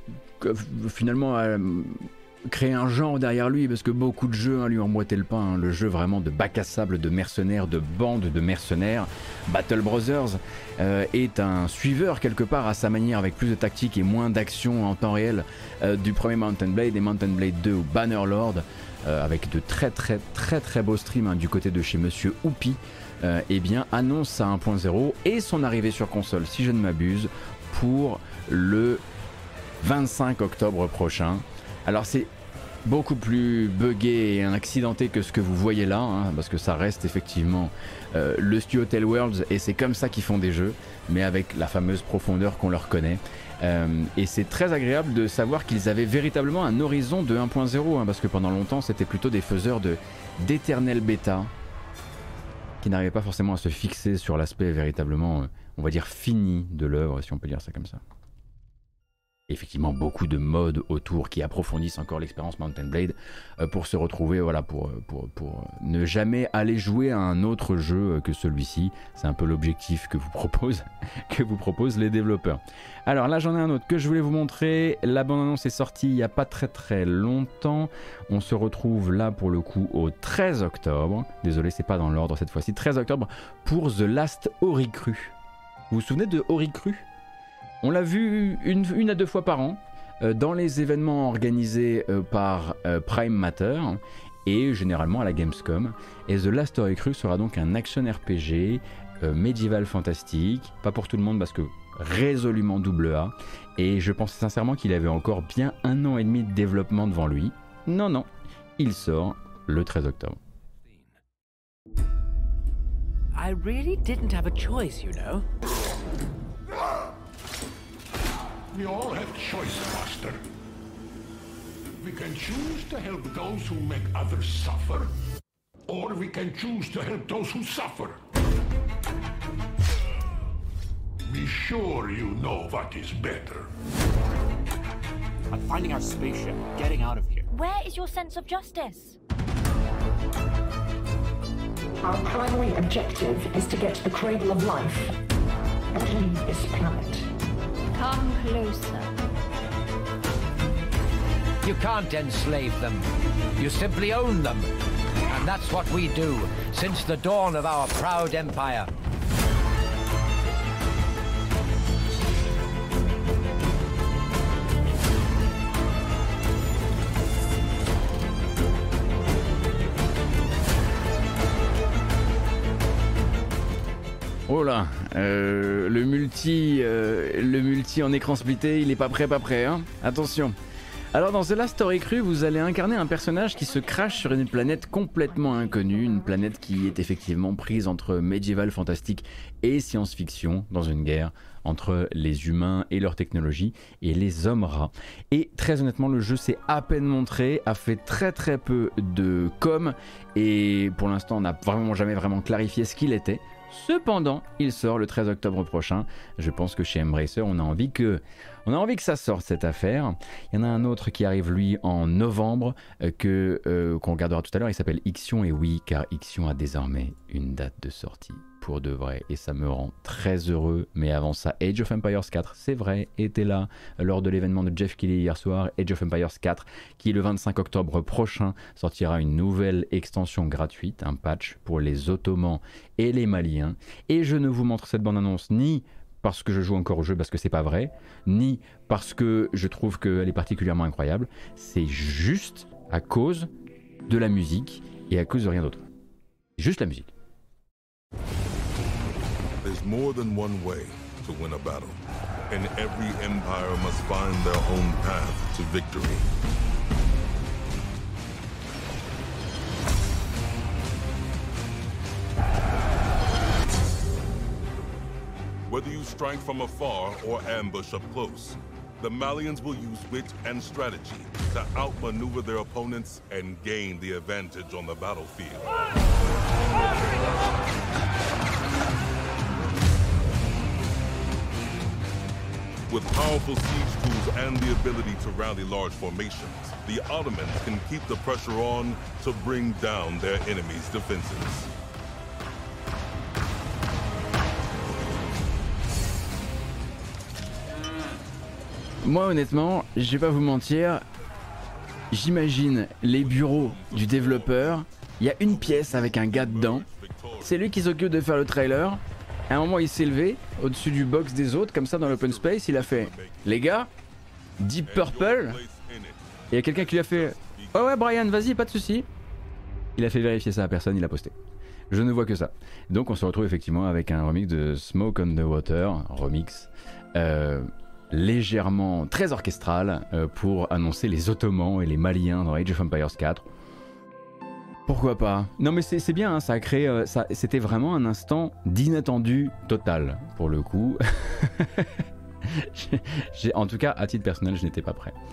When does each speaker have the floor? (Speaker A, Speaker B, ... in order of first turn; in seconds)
Speaker A: 0.4-29.0, 29.8-32.3, 32.9-51.5, 52.8-58.0, 59.5-85.3, 85.9-87.0, 87.8-110.4, 174.5-180.6, 181.1-243.5, 244.1-245.8, 246.6-247.1, 299.0-301.0, 302.1-306.9, 307.4-313.9, 314.6-315.6, 316.5-319.1, 320.0-321.4, 321.9-333.5, 334.9-341.9, 342.5-345.1
Speaker B: 113.3-115.5, 135.5-137.4, 151.6-153.1, 153.6-154.7, 155.3-158.9
Speaker C: 118.7-120.4, 122.0-125.1, 125.9-128.2, 131.3-133.7
Speaker D: 137.5-139.1, 147.9-149.1
Speaker E: 142.0-145.1, 145.9-147.2
Speaker F: 249.6-256.3, 265.7-275.7, 282.9-291.7, 303.0-304.9, 305.4-307.6, 312.0-313.8, 314.9-318.1